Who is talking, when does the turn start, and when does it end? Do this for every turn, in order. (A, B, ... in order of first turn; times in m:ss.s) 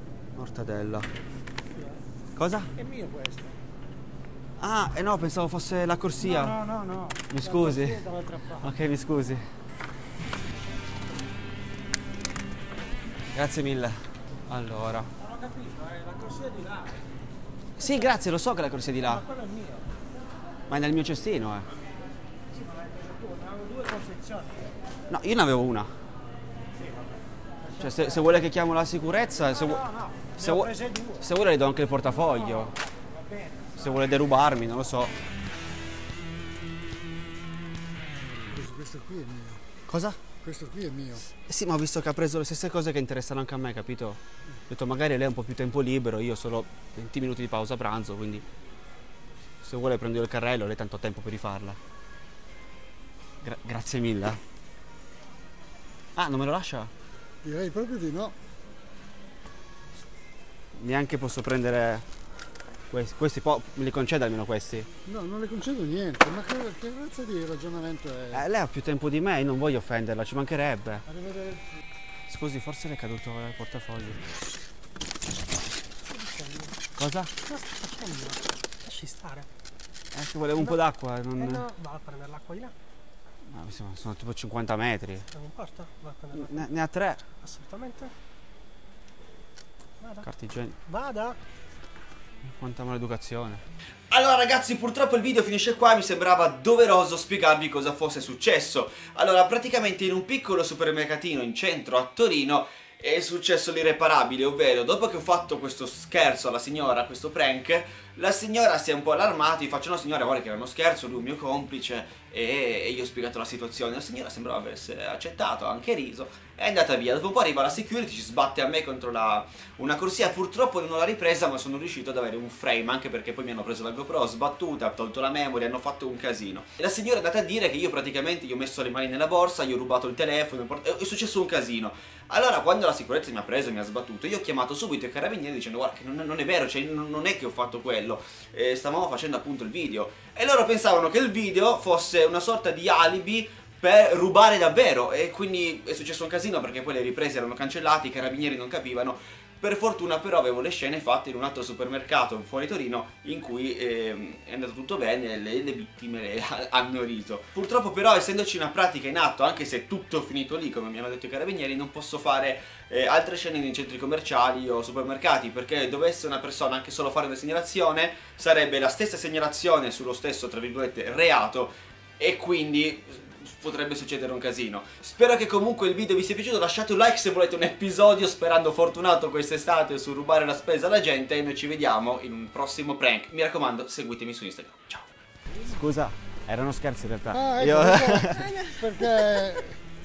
0:00.4-0:01.1 A
0:02.4-0:02.7 A
0:04.6-0:06.6 A
0:07.3-0:09.5 A
0:13.3-0:15.1 A
0:17.8-0:19.3 A
0:20.7-0:21.7 A
0:23.7-0:24.2 B
0:25.1-0:25.9 A
0:27.7-0:32.8 A
0:33.7-0:35.1 A
0:38.5-0:39.6 C
0:39.8-0:40.2 A
0:40.4-0:41.2 C
0:41.3-0:48.4 A
0:49.6-0:51.8 A
0:53.4-0:54.4 A
0:56.2-0:56.9 A
0:57.4-0:58.3 C
1:00.8-1:02.0 A
1:02.9-1:04.9 A
1:05.1-1:08.2 C
1:08.3-1:11.0 A
1:12.3-1:14.2 A
1:16.0-1:16.8 B
1:17.0-1:17.3 A
1:17.4-1:19.5 B
1:20.1-1:21.7 A
1:21.4-1:22.7 B
1:23.5-1:25.3 A
1:25.3-1:26.7 B
1:26.3-1:27.2 A
1:27.4-1:28.1 B
1:30.0-1:30.2 B
1:30.2-1:30.8 A
1:30.9-1:31.4 B
1:32.5-3:05.1 A
3:05.7-3:08.6 A
3:07.5-3:09.8 C